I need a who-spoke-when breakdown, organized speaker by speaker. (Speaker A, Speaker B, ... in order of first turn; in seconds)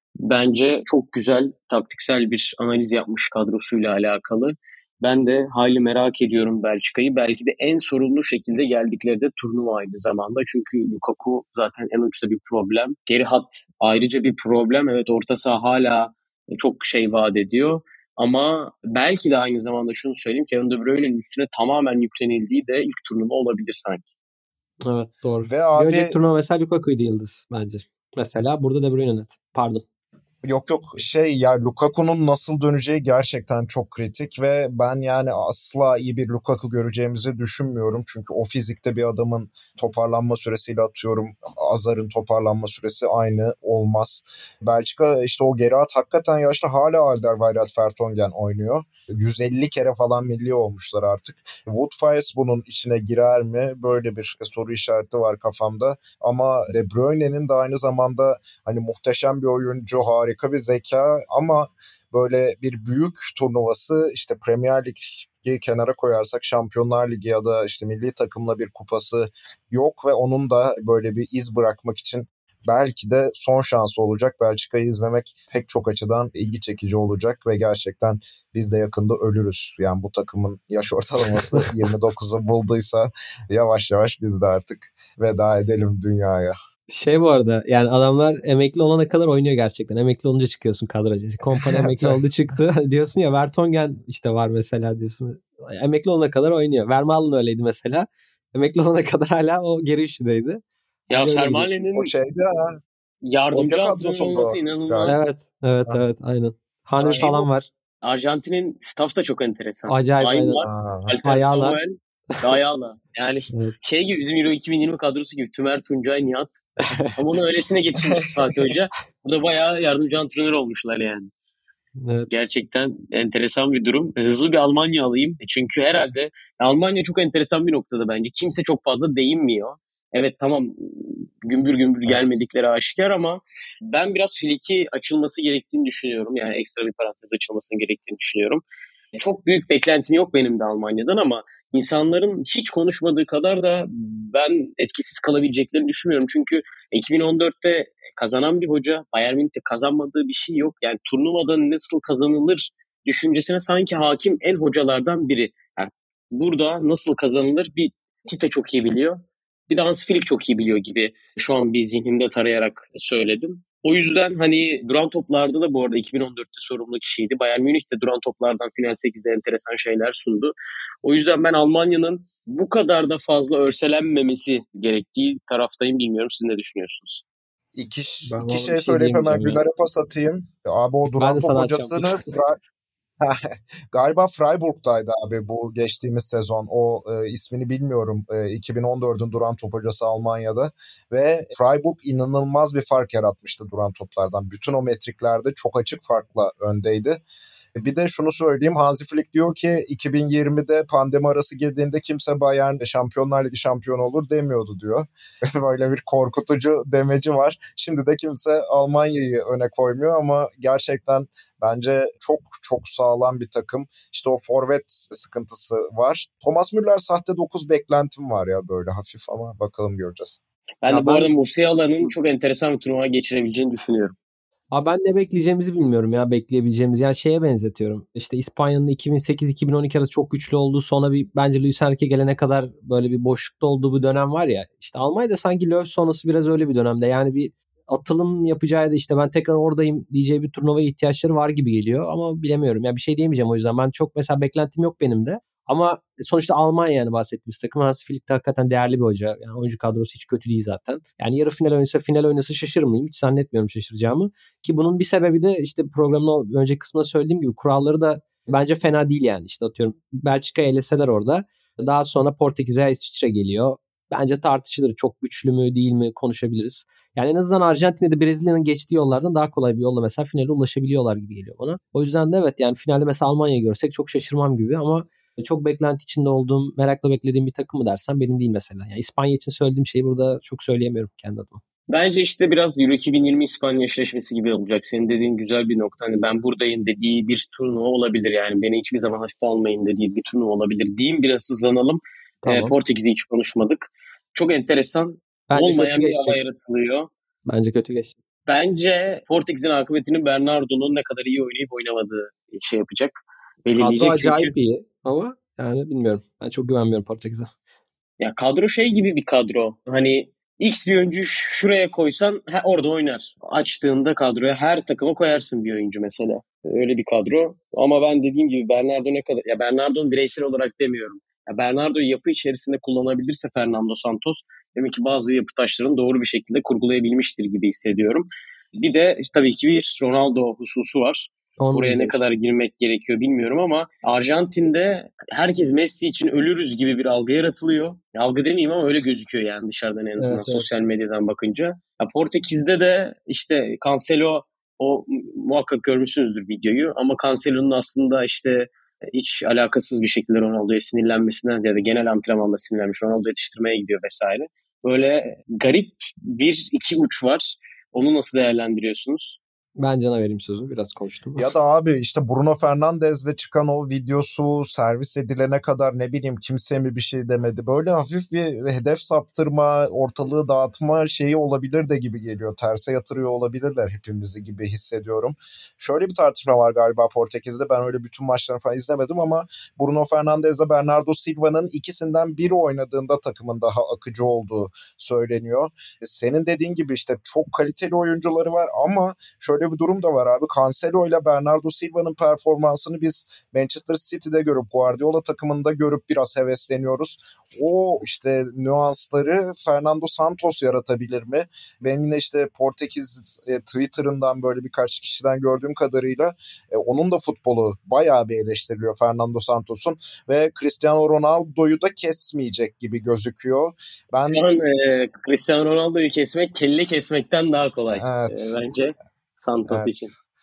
Speaker A: 0.2-24.0, 101.1-102.1, 103.2-105.3, 108.0-116.5, 117.1-121.3, 122.3-138.6, 139.1-177.2, 220.8-224.1, 281.9-297.1, 298.5-304.5, 308.2-359.4, 414.3-420.1
Speaker B: 24.8-29.8, 81.3-81.7, 86.9-101.7, 105.1-107.7, 109.9-110.6, 111.2-111.8, 116.9-117.2, 122.0-122.3, 178.3-179.6, 181.2-182.4, 220.9-221.3, 224.7-281.6, 292.4-292.7, 295.5-296.4, 297.5-298.1, 303.8-307.5, 331.6-332.2, 340.2-340.6, 359.8-361.5
Speaker C: 25.5-26.2, 30.4-86.5, 91.6-92.2, 101.9-102.8, 103.5-105.2, 107.0-107.4, 110.6-111.2, 132.1-132.4, 177.7-182.6, 183.9-197.2, 197.8-220.4, 361.4-414.4, 417.9-418.6, 419.7-420.1